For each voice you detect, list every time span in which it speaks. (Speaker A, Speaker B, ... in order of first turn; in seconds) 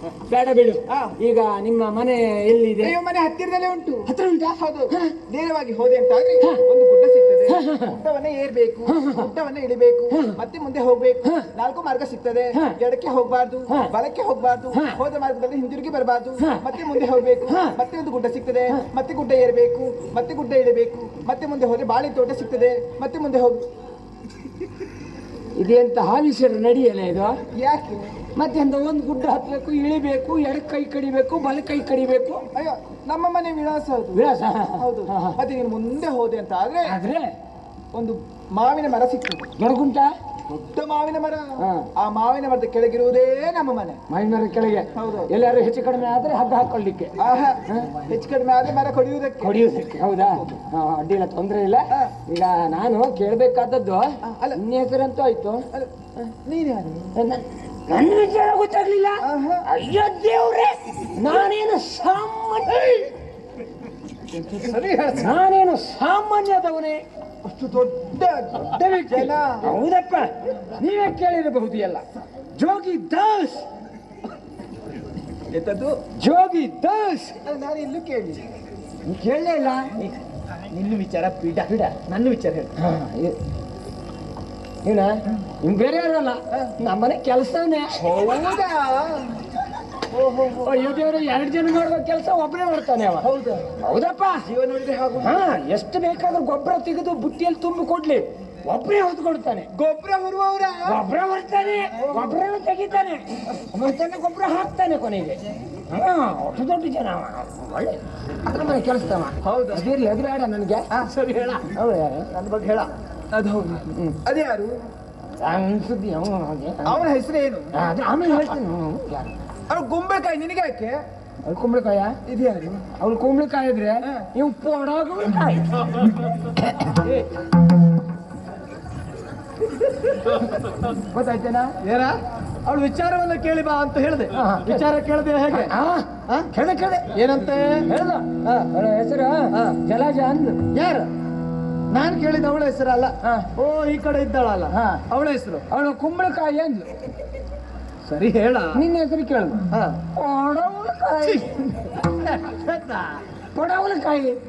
Speaker A: 0.3-3.0, 4.1-5.1, 7.5-8.0, 8.9-9.3, 10.1-10.4, 11.2-11.5, 14.7-15.0, 16.4-17.8, 25.6-27.4, 28.4-32.5, 34.1-35.4, 36.8-37.3, 39.6-40.1, 41.6-41.9, 44.1-47.1, 47.7-47.9, 49.4-55.6, 57.1-63.1, 65.1-67.0, 68.6-73.7, 76.2-77.4, 79.0-80.0, 82.8-83.4, 84.8-88.0, 90.5-94.4, 95.2-99.7, 100.8-110.9, 111.6-112.3, 113.9-114.2, 115.4-117.0, 117.7-119.3, 121.4-122.2, 122.9-126.0, 126.6-127.0, 130.9-131.8, 134.3-134.8, 135.5-137.2, 137.8-141.0, 143.2-143.5, 144.7-145.0, 145.7-147.0, 148.7-151.6, 153.5-154.4
Speaker B: 0.9-1.2, 2.8-23.7, 27.5-28.1, 32.5-37.0, 37.9-39.5, 40.5-44.0, 44.9-45.3, 47.2-49.6, 50.2-50.6, 54.2-54.6, 56.4-57.1, 59.2-59.7, 64.3-65.3, 67.4-69.7, 75.5-76.0, 77.4-78.5, 80.7-82.8, 87.9-89.5, 90.1-90.8, 93.2-93.7, 94.4-95.4, 99.7-101.0, 102.0-102.4, 109.4-109.9, 110.9-111.7, 112.3-114.7, 116.8-117.7, 119.7-121.0, 122.2-122.8, 124.0-124.3, 131.8-135.7, 137.1-137.9, 139.5-139.8, 140.8-141.0, 141.9-145.7, 148.1-148.8, 149.7-150.0, 151.2-153.2